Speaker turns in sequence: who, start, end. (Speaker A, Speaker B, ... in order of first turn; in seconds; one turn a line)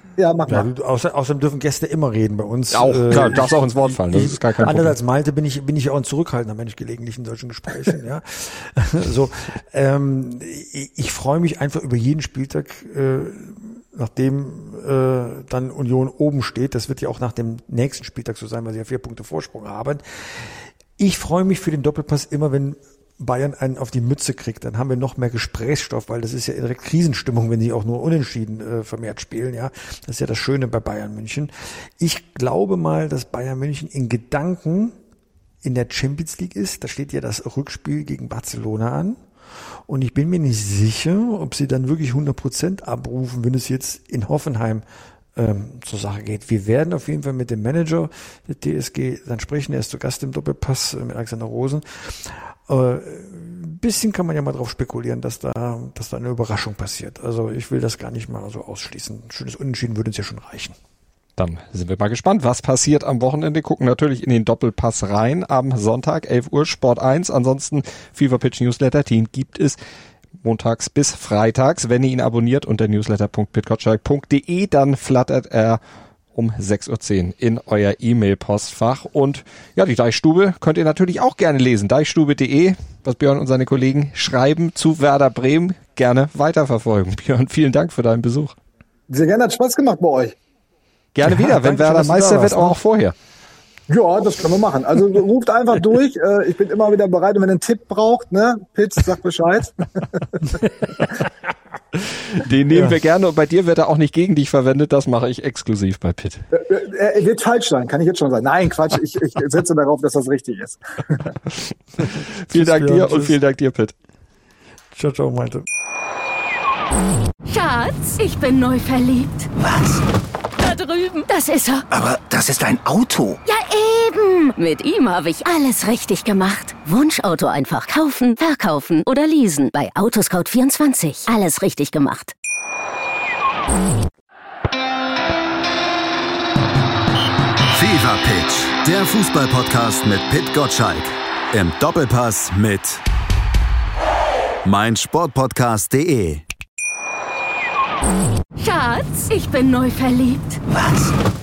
Speaker A: 0.2-0.7
Speaker B: 0.5-35.0
Speaker C: 2.7-4.9
Speaker B: 35.6-39.2
Speaker B: 39.9-60.7
Speaker C: 61.4-69.8
Speaker C: 70.4-75.8
Speaker C: 76.3-88.5
Speaker A: 89.1-90.3
Speaker C: 91.1-93.1
Speaker B: 91.2-92.8
Speaker A: 93.9-100.2
Speaker C: 102.3-106.5
Speaker A: 106.5-111.3
Speaker B: 112.0-113.4
Speaker C: 112.4-113.9
Speaker B: 114.9-115.6
Speaker D: 117.4-119.5
Speaker E: 119.6-120.0
Speaker D: 120.6-121.8
Speaker E: 121.9-123.4
Speaker D: 123.5-132.3
Speaker F: 137.7-143.0
Speaker F: 144.6-146.4
Speaker D: 148.5-150.6
Speaker E: 150.7-151.1